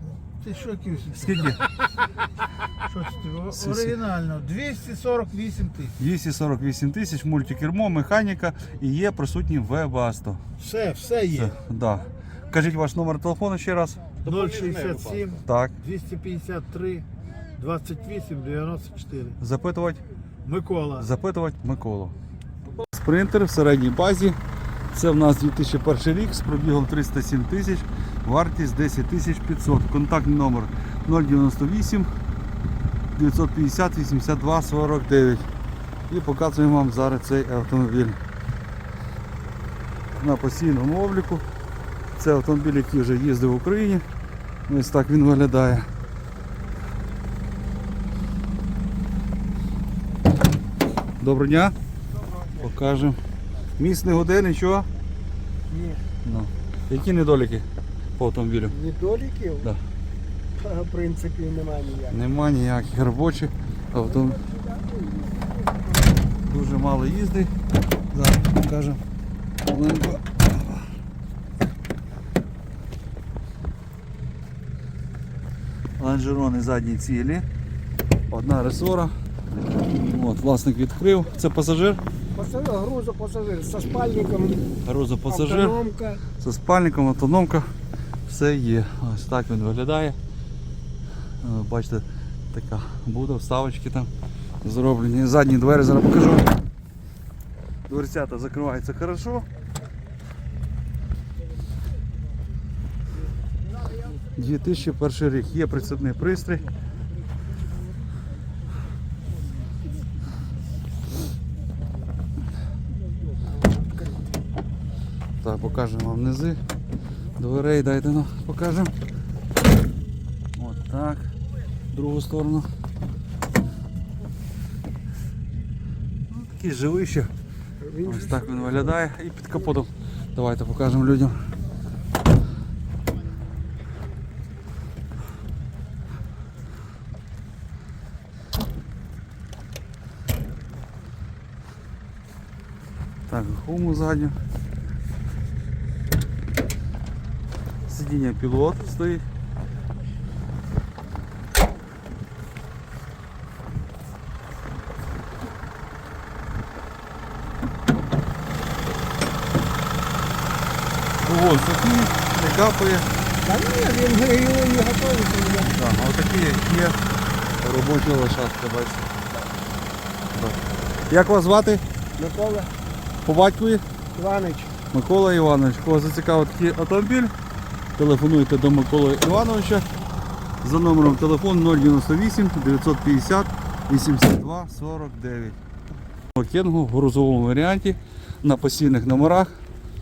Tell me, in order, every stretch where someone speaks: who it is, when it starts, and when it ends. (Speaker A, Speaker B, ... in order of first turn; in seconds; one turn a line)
Speaker A: 0.4-1.4
Speaker B: 1.1-1.6
Speaker A: 2.9-5.9
Speaker B: 3.5-4.0
Speaker B: 6.0-10.4
Speaker A: 10.6-11.5
Speaker B: 11.3-14.0
Speaker A: 14.2-17.1
Speaker B: 15.4-15.8
Speaker A: 17.6-19.3
Speaker B: 19.4-20.0
Speaker A: 20.4-21.0
Speaker B: 20.9-22.1
Speaker B: 22.8-24.4
Speaker B: 24.9-32.1
Speaker B: 33.1-35.4
Speaker B: 36.1-38.2
Speaker B: 40.2-41.5
Speaker B: 42.2-44.0
Speaker B: 44.7-45.9
Speaker B: 51.2-51.8
Speaker B: 52.6-53.2
Speaker B: 53.8-54.9
Speaker C: 55.7-56.0
Speaker B: 56.2-57.6
Speaker B: 58.2-58.8
Speaker C: 58.7-59.7
Speaker C: 60.6-62.1
Speaker B: 62.1-64.4
Speaker B: 66.4-67.5
Speaker B: 68.1-69.0
Speaker B: 69.7-70.8
Speaker B: 76.0-77.5
Speaker B: 78.3-79.1
Speaker B: 79.9-82.0
Speaker C: 82.3-84.6
Speaker B: 84.8-85.8
Speaker C: 85.3-86.2
Speaker B: 86.3-87.7
Speaker B: 88.3-90.2
Speaker B: 91.4-94.1
Speaker B: 94.6-96.5
Speaker B: 97.9-99.5
Speaker B: 104.3-106.7
Speaker B: 115.4-116.6
Speaker B: 117.4-118.9
Speaker B: 120.6-121.3
Speaker B: 121.9-122.7
Speaker B: 126.3-127.3
Speaker C: 127.8-128.9
Speaker B: 128.0-131.4
Speaker B: 143.3-144.4
Speaker B: 147.9-149.2
Speaker B: 161.2-163.1
Speaker C: 163.4-165.7
Speaker B: 165.6-167.0
Speaker B: 167.6-169.1
Speaker B: 170.3-170.6
Speaker B: 171.1-171.8
Speaker C: 172.2-172.7
Speaker B: 173.3-173.8
Speaker C: 174.2-174.7
Speaker B: 174.9-177.3
Speaker B: 178.0-179.9
Speaker B: 180.6-185.6
Speaker B: 186.3-189.5